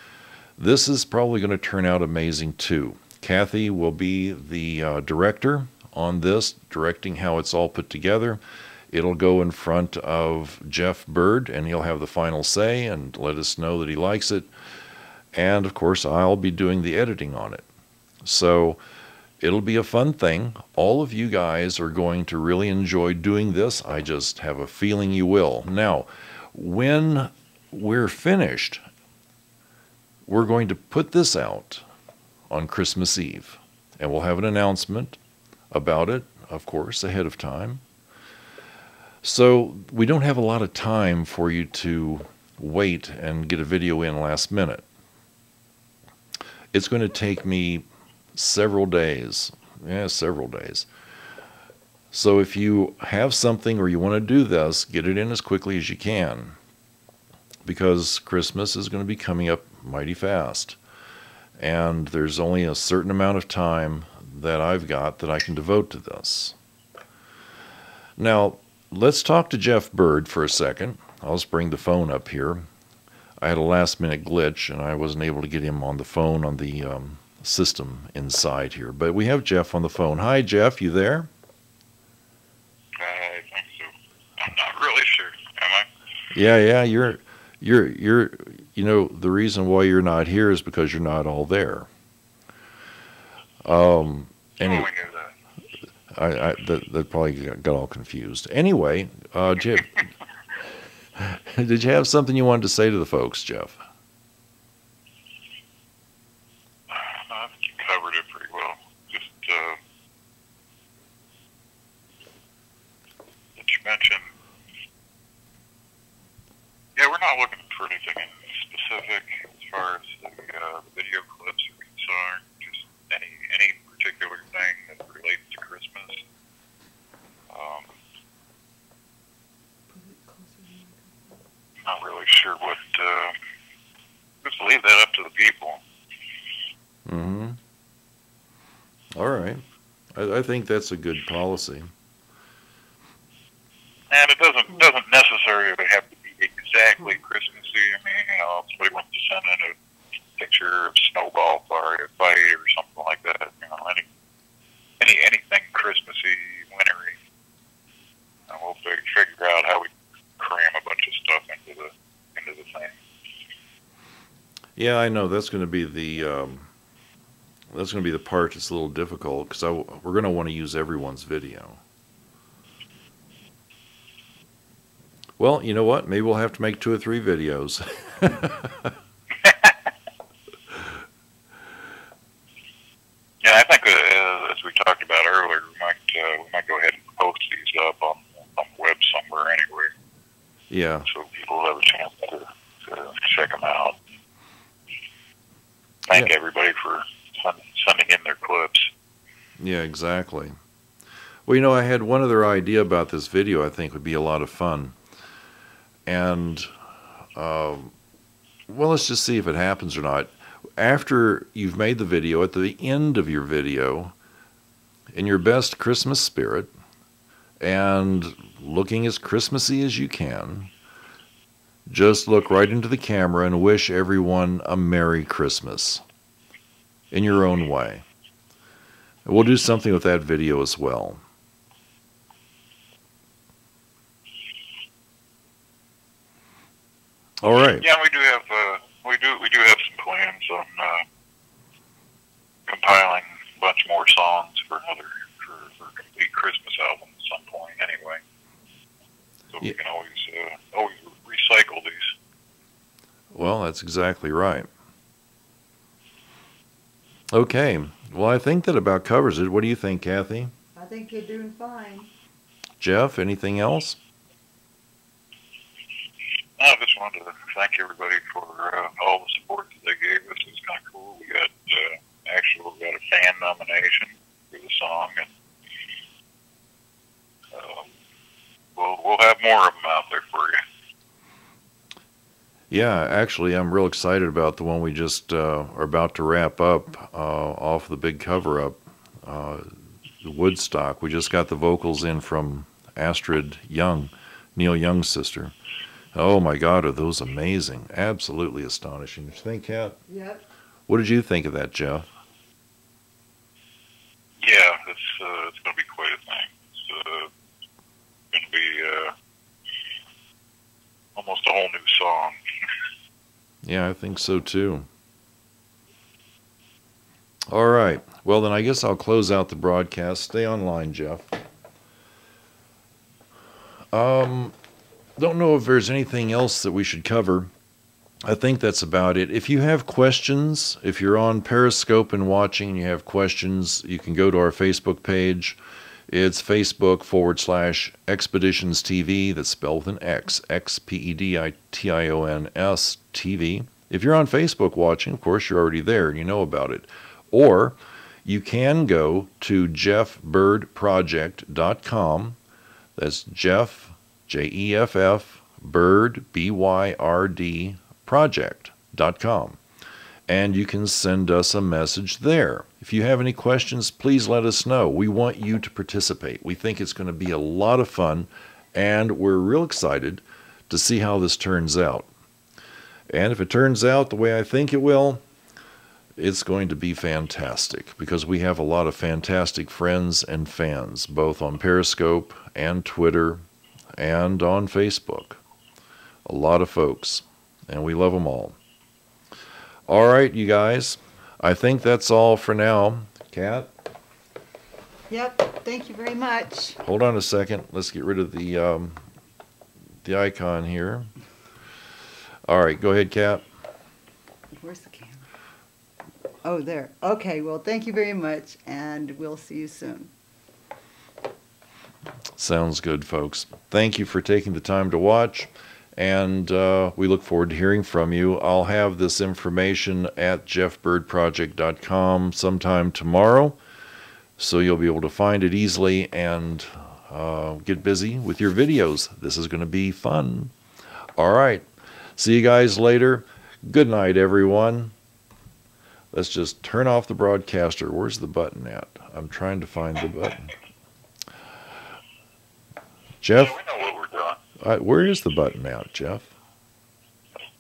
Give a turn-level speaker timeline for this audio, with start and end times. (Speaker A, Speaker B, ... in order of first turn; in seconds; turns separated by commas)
Speaker A: 0.6-8.4, Speaker A: 8.9-14.5, Speaker A: 15.3-17.6, Speaker A: 18.2-18.8, Speaker A: 19.4-28.8, Speaker A: 30.3-31.8, Speaker A: 32.5-35.2, Speaker A: 35.7-37.8, Speaker A: 39.2-44.9, Speaker A: 46.7-50.9, Speaker A: 52.1-56.5, Speaker A: 57.6-60.8, Speaker A: 61.6-66.5, Speaker A: 68.2-72.6, Speaker A: 73.4-81.3, Speaker B: 83.0-85.9, Speaker A: 86.3-91.9, Speaker A: 93.6-94.9, Speaker B: 94.6-95.3, Speaker A: 96.1-100.0, Speaker A: 101.2-103.8, Speaker B: 106.9-109.8, Speaker B: 113.6-114.3, Speaker B: 117.0-126.2, Speaker B: 127.5-127.9, Speaker C: 129.9-131.4, Speaker B: 131.8-133.3, Speaker B: 134.4-135.8, Speaker A: 137.1-137.6, Speaker A: 139.1-139.6, Speaker A: 140.2-141.9, Speaker B: 144.1-149.7, Speaker B: 150.4-154.0, Speaker B: 155.0-157.2, Speaker B: 158.5-159.9, Speaker B: 160.4-163.0, Speaker A: 164.8-166.7, Speaker A: 167.7-171.8, Speaker A: 175.4-178.9, Speaker B: 179.4-179.8, Speaker B: 183.4-189.9, Speaker A: 190.7-191.1, Speaker B: 191.1-194.0, Speaker B: 196.1-198.9, Speaker A: 199.6-200.5, Speaker A: 201.4-204.9, Speaker A: 206.1-206.7, Speaker A: 207.3-207.9, Speaker A: 208.7-214.1, Speaker A: 215.1-216.7, Speaker A: 217.6-220.7, Speaker A: 221.9-226.0, Speaker A: 227.1-228.0, Speaker A: 229.2-231.2, Speaker A: 237.4-237.8, Speaker B: 237.8-241.0, Speaker B: 242.7-248.2, Speaker B: 249.5-252.1, Speaker A: 253.3-254.7, Speaker A: 257.3-260.5, Speaker C: 260.7-262.1, Speaker A: 262.8-264.0, Speaker B: 266.6-275.3, Speaker B: 277.5-277.9, Speaker B: 278.8-280.6, Speaker A: 282.7-289.7, Speaker A: 290.2-295.5, Speaker A: 296.1-300.0, Speaker C: 300.1-300.4, Speaker A: 300.9-302.1, Speaker B: 304.4-307.3, Speaker B: 308.3-309.1, Speaker B: 311.1-312.4, Speaker A: 313.6-314.9, Speaker A: 317.5-321.4, Speaker A: 323.9-324.5, Speaker A: 325.2-327.5, Speaker A: 328.2-335.6, Speaker A: 336.1-352.4, Speaker A: 352.9-359.6, Speaker A: 360.3-372.1, Speaker A: 373.1-375.2, Speaker A: 376.2-383.4, Speaker A: 384.0-385.4, Speaker A: 386.2-388.6, Speaker A: 389.9-393.7, Speaker C: 395.1-396.8, Speaker A: 396.8-399.0, Speaker A: 400.0-401.1, Speaker A: 402.5-403.4, Speaker C: 404.6-405.2, Speaker C: 406.4-410.1, Speaker A: 412.4-423.6, Speaker A: 424.4-430.5, Speaker A: 431.2-434.9, Speaker A: 436.1-440.5, Speaker A: 443.2-443.6, Speaker B: 443.3-444.4, Speaker A: 444.6-446.3